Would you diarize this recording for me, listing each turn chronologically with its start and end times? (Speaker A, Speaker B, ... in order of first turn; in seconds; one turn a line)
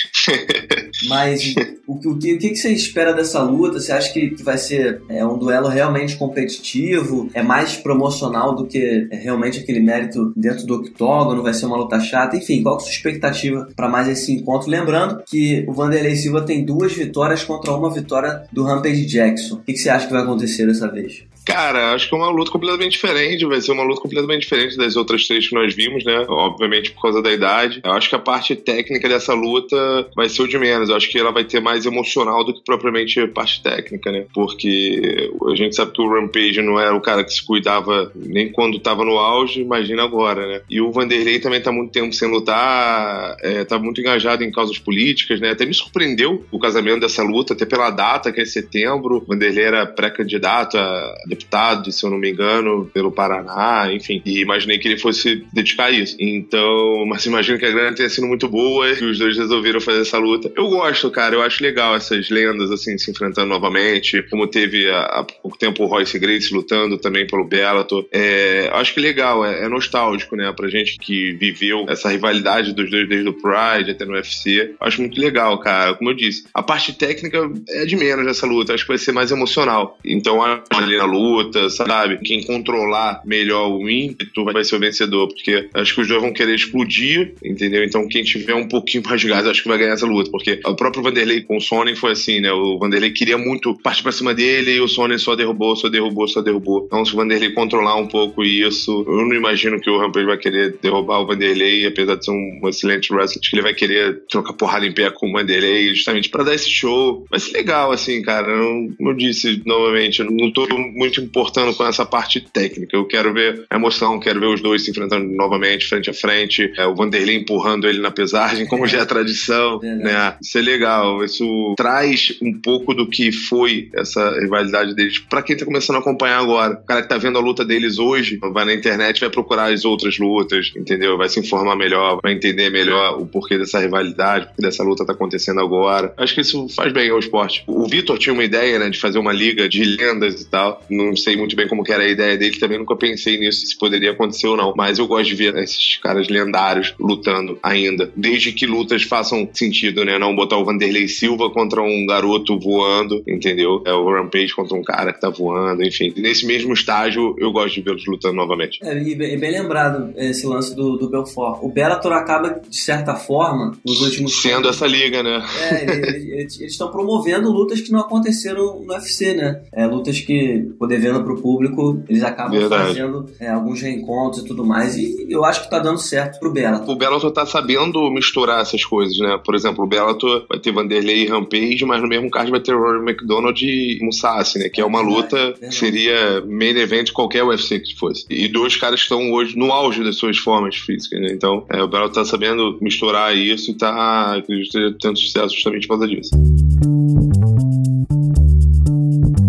Speaker A: 0.1-0.8
Speaker B: 1.0-21.2
Speaker A: 21.4-158.8
Speaker B: 118.6-119.0
Speaker B: 119.8-120.3
Speaker B: 158.8-164.8
Speaker A: 163.9-166.1
Speaker B: 165.5-176.9
Speaker A: 172.4-173.0
Speaker A: 176.9-196.3
Speaker B: 184.7-186.0